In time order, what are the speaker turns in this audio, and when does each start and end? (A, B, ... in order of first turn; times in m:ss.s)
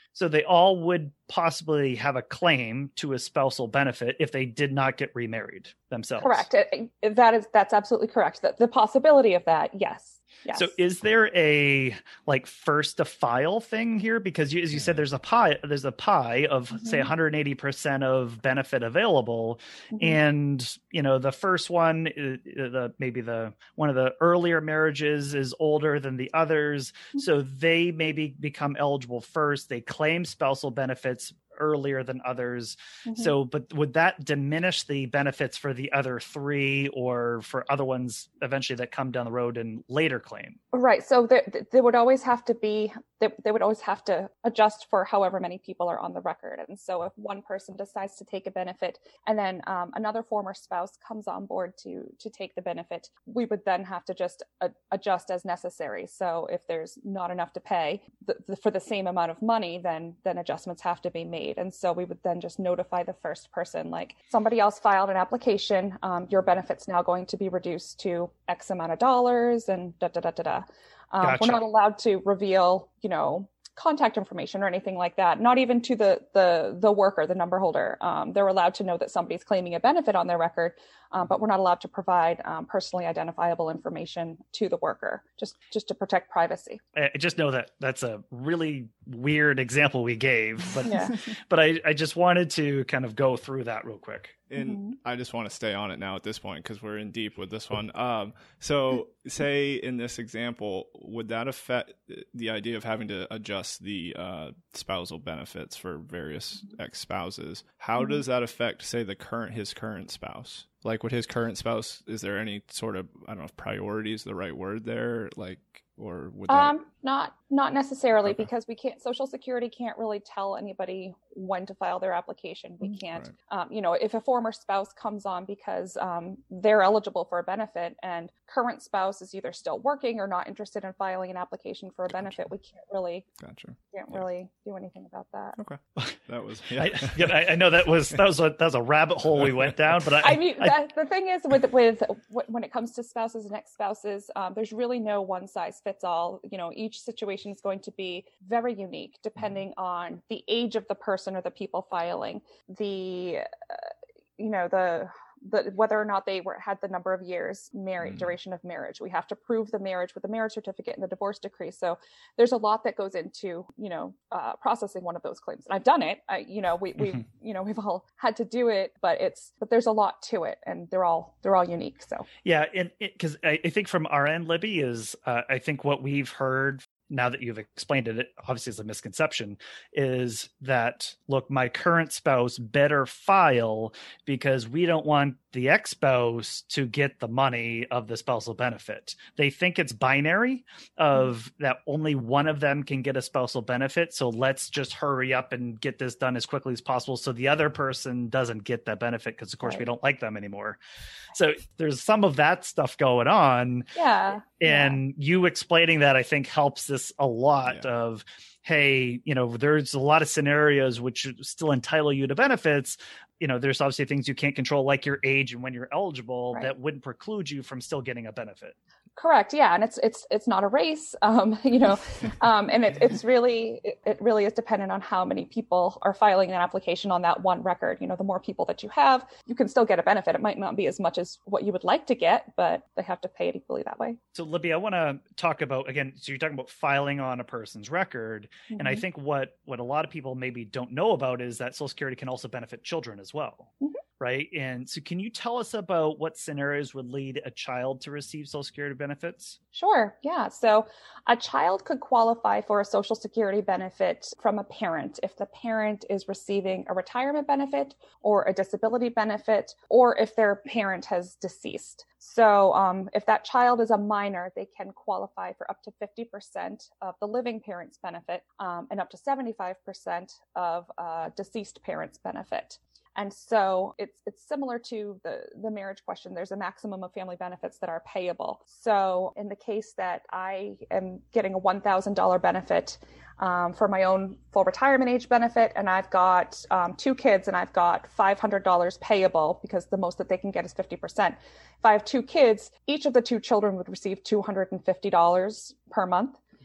0:00.1-0:06.5 A
0:06.2-0:10.7 B
0:10.5-0:40.6 A
0:16.8-0:17.1 B
0:19.9-0:20.2 B
0:33.1-0:33.3 B
0:40.7-1:26.8 B
1:11.2-1:11.6 A
1:26.9-1:34.4 A
1:30.8-1:31.2 B
1:34.5-1:56.8 C
1:34.6-1:34.9 B
1:56.5-2:13.3 B
2:13.4-2:14.2 C
2:13.9-2:15.6 B
2:15.6-2:17.4 C
2:16.7-2:20.7 A
2:20.2-2:52.3 B
2:52.4-3:20.8 A
3:21.3-3:23.9 A
3:24.0-3:25.0 B
3:24.6-3:38.8 A
3:39.2-3:54.2 B
3:54.3-4:09.6 A
3:58.7-3:59.0 B
4:09.7-4:56.4 B